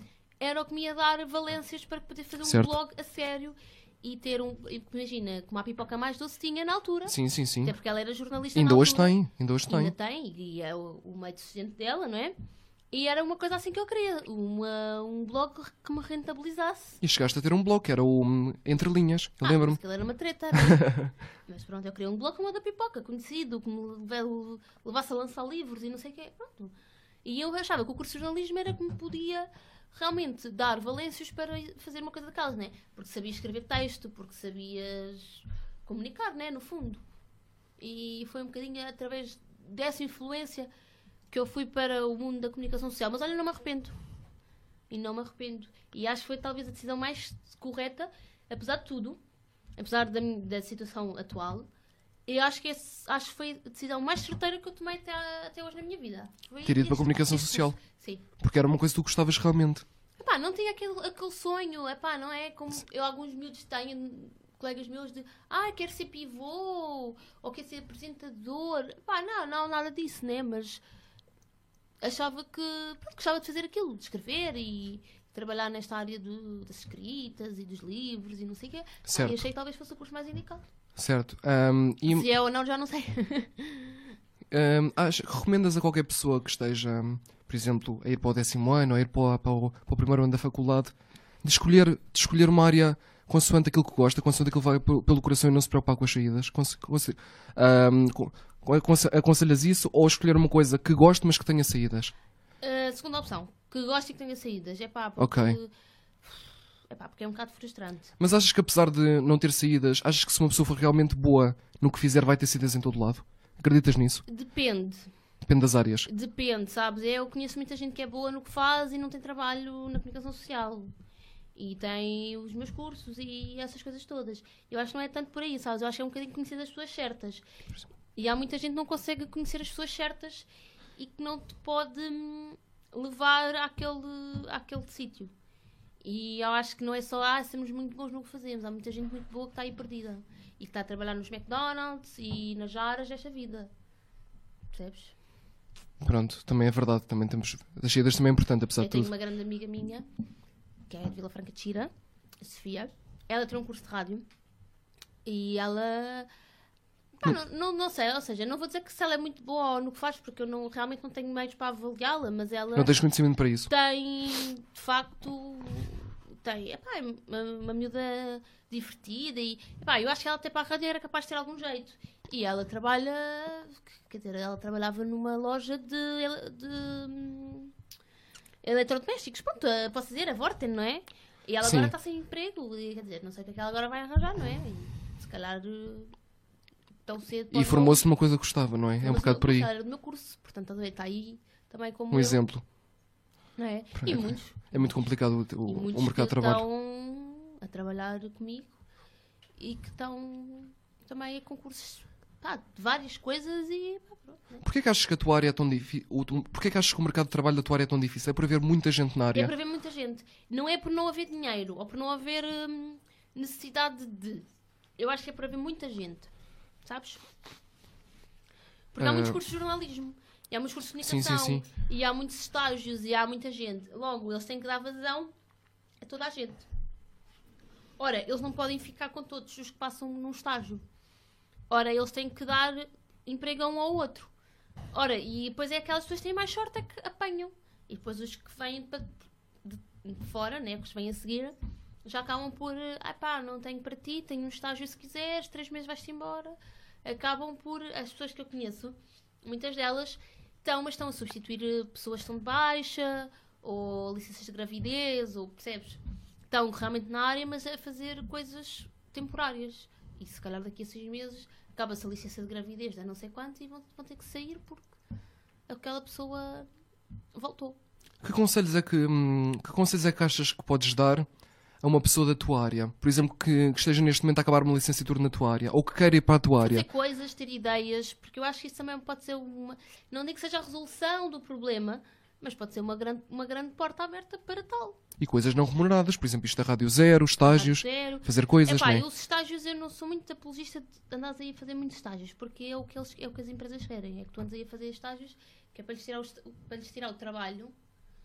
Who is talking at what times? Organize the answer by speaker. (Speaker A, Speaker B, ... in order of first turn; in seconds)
Speaker A: 0.4-12.3, 12.9-17.0, 19.4-26.7, 27.2-37.0, 37.8-40.7, 41.3-44.0, 44.9-49.2, 49.8-51.7, 52.2-58.2, 60.2-70.8, 72.0-80.6, 82.0-84.1, 102.6-105.7, 106.2-108.1, 114.3-115.0, 116.0-120.9, 121.5-127.4, 128.1-135.3, 136.0-143.7, 144.7-145.1, 148.8-150.1, 150.9-154.2, 155.2-156.3, 157.2-163.0, 163.7-177.7, 178.6-186.1, 187.1-188.0, 189.0-192.4, 193.6-194.9, 195.7-198.8, 199.6-204.6, 209.3-214.4, 215.0-216.3, 216.8-217.2, 218.9-225.3, 226.0-226.6, 228.0-230.8, 231.7-234.3, 234.9-239.1, 239.6-256.0, 256.5-264.9, 265.7-266.7, 267.3-267.8, 276.6-285.0, 287.4-297.7
Speaker B: 2.4-2.8, 7.1-7.7, 8.5-9.9, 17.0-19.8, 20.6-21.1, 56.6-57.8, 58.4-59.8, 79.1-79.4, 81.0-82.3, 84.5-102.1, 105.2-105.6, 108.2-114.2, 115.4-116.1, 146.0-149.1, 162.7-163.7, 181.6-181.9, 187.5-189.7, 192.1-192.6, 193.9-196.6, 204.6-209.5, 219.0-219.4, 221.0-221.7, 268.2-271.3, 271.8-276.9, 285.2-289.1